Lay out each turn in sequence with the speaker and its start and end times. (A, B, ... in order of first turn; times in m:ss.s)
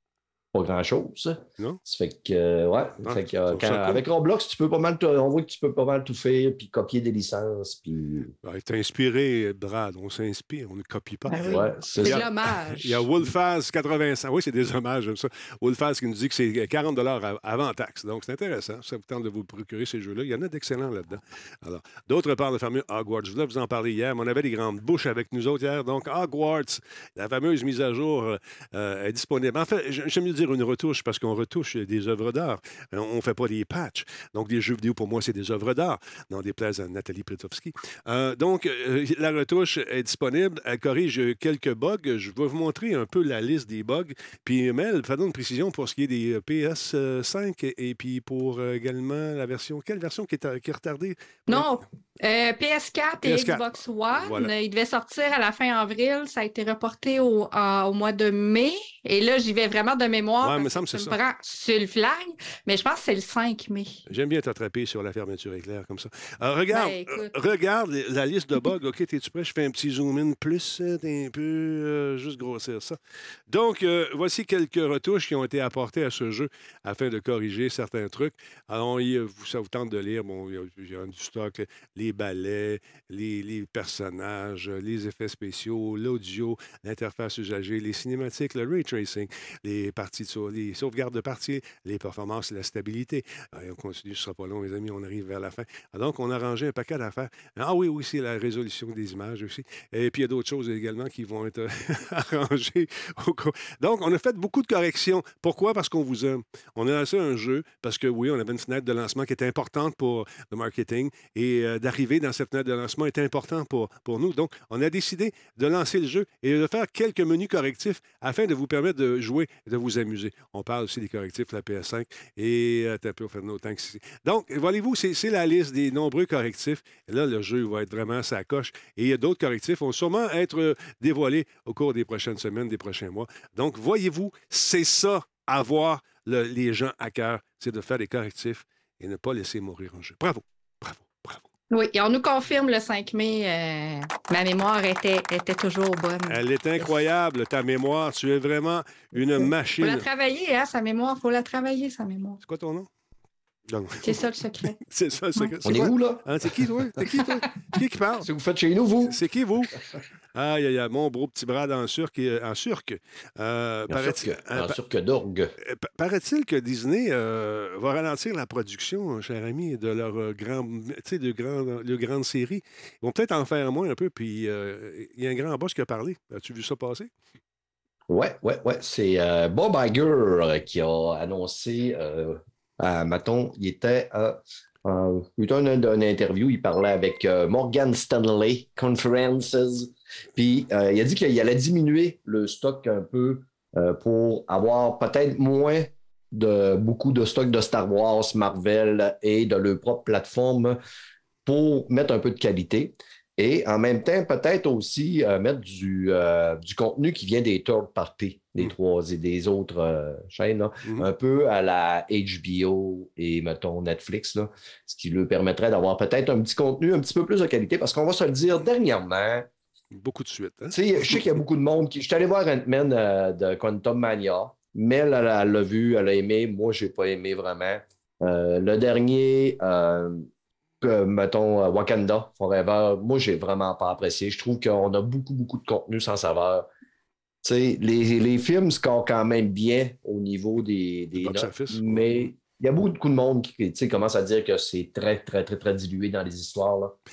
0:00.5-0:08.3 A
0:03.0-0:04.0 B
0:08.4-0:51.7 B
0:11.3-0:13.1 C
0:11.5-0:12.2 A
0:51.5-1:04.0 C
0:53.2-0:54.5 B
1:00.4-1:01.2 B
1:04.1-1:13.0 B
1:06.7-1:07.3 C
1:13.5-2:21.4 B
2:21.7-2:26.4 C
2:26.3-2:30.1 B
2:29.4-2:32.4 C
2:32.4-2:32.9 B
2:33.7-2:38.2 B
2:34.0-2:34.8 C
2:35.6-2:36.2 A
2:38.2-2:39.2 A
2:39.0-2:39.8 B
2:40.3-2:44.8 B
2:43.9-2:45.5 A
2:45.6-2:57.1 B
2:58.1-3:20.8 A
3:21.4-3:39.5 A
3:40.0-3:41.2 B
3:40.7-3:50.3 A
3:50.8-3:56.7 A
3:57.4-4:07.0 A
4:01.2-4:02.3 B